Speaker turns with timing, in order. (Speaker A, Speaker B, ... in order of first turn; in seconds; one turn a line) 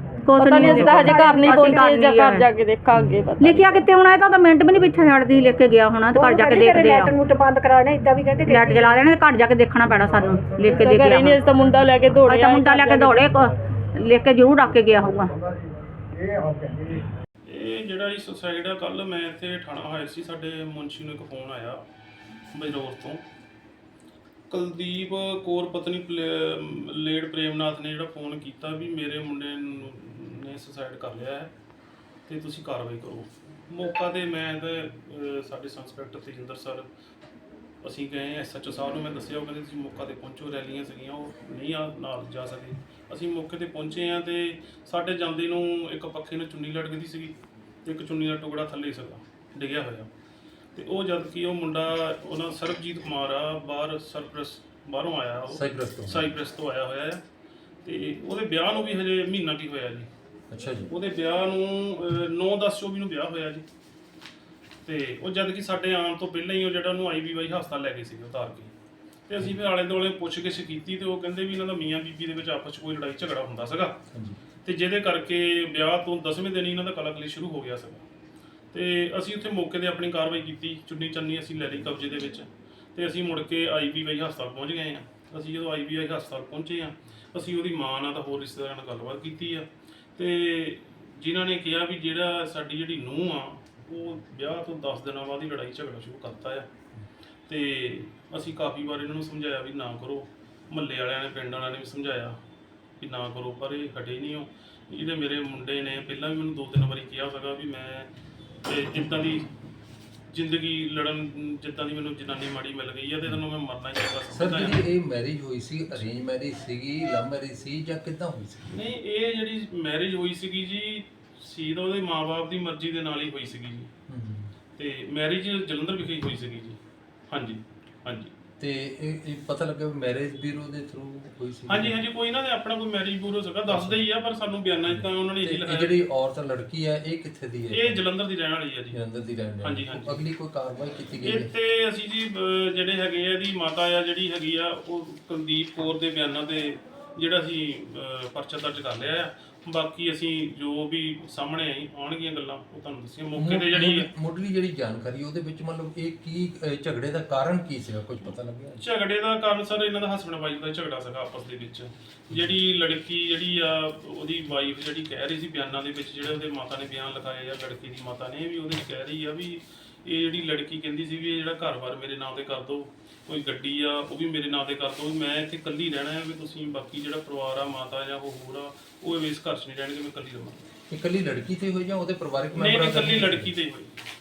Speaker A: 0.3-2.5
Speaker B: 0.4-3.7
Speaker C: 0.5-1.9
Speaker A: 3.4-7.2
Speaker C: 6.1-9.0
Speaker A: 8.5-11.4
Speaker B: 10.7-13.2
Speaker A: 12.3-15.3
Speaker D: 17.5-21.8
Speaker D: 22.5-23.2
Speaker D: 24.5-31.5
Speaker D: 32.3-36.9
Speaker D: 37.8-50.1
Speaker D: 50.8-57.2
Speaker E: 55.5-56.4
Speaker D: 57.9-60.1
Speaker E: 60.5-60.9
Speaker D: 60.9-63.6
Speaker D: 64.8-68.7
Speaker D: 69.3-74.0
Speaker E: 74.1-74.4
Speaker D: 74.7-78.0
Speaker D: 78.7-96.7
Speaker D: 97.5-102.4
Speaker D: 103.0-108.1
Speaker D: 108.7-109.5
Speaker D: 110.3-114.9
Speaker E: 114.3-118.8
Speaker D: 118.7-123.9
Speaker E: 124.1-124.5
Speaker D: 124.8-126.8
Speaker D: 127.3-128.3
Speaker E: 128.6-132.0
Speaker D: 131.7-136.0
Speaker E: 133.7-134.1
Speaker E: 134.9-138.0
Speaker D: 137.7-139.0
Speaker E: 138.9-141.5
Speaker D: 139.6-140.2
Speaker D: 141.2-154.1
Speaker E: 153.4-158.8
Speaker D: 158.8-180.7
Speaker E: 180.9-183.5
Speaker D: 182.6-184.0